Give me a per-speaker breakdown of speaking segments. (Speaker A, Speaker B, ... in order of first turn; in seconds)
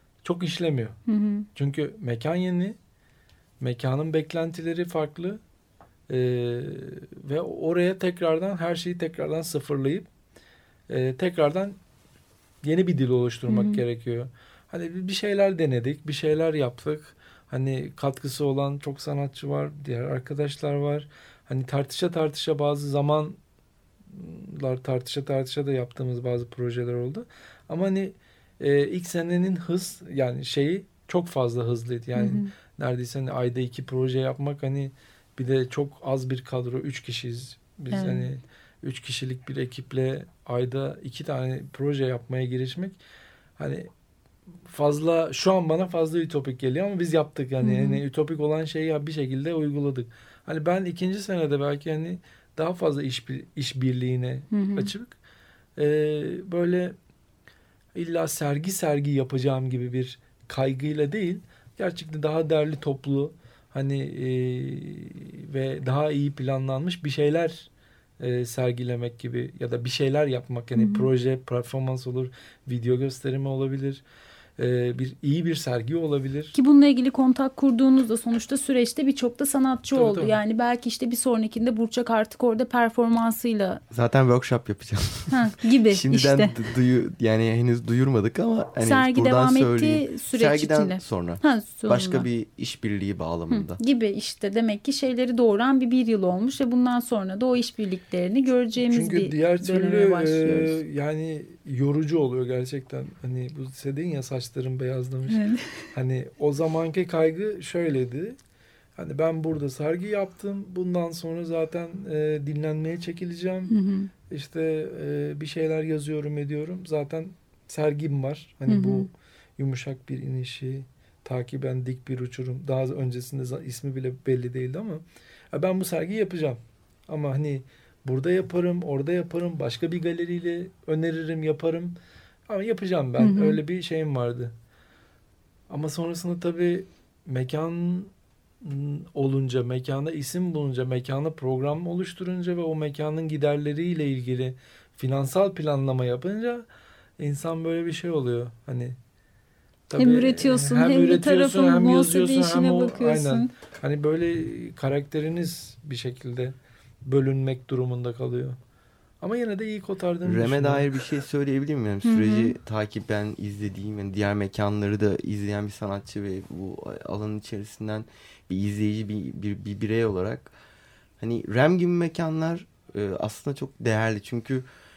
Speaker A: 0.2-1.0, 1.5-2.8, 3.6-5.4, 6.1-10.1, 10.9-11.8, 12.6-23.4, 24.1-43.0, 43.6-43.9, 44.7-55.1, 55.8-57.0, 58.0-67.7, 68.2-74.0, 74.6-76.5, 79.9-80.4, 98.9-108.4, 109.0-113.7, 114.3-132.0, 132.5-134.5, 135.7-146.7, 147.2-149.0, 149.9-158.6, 159.2-160.9
Speaker B: 1.1-1.5, 13.5-13.8, 32.1-32.5, 37.9-38.2, 47.6-48.0, 54.5-54.9, 70.8-71.1, 76.5-83.8, 85.3-86.5, 88.8-92.2, 93.5-100.8, 105.3-105.9, 113.7-114.1, 118.7-119.1, 133.2-133.6, 150.0-153.5, 162.0-162.5
Speaker C: 83.9-85.3, 85.9-93.8, 160.2-170.5, 171.2-174.7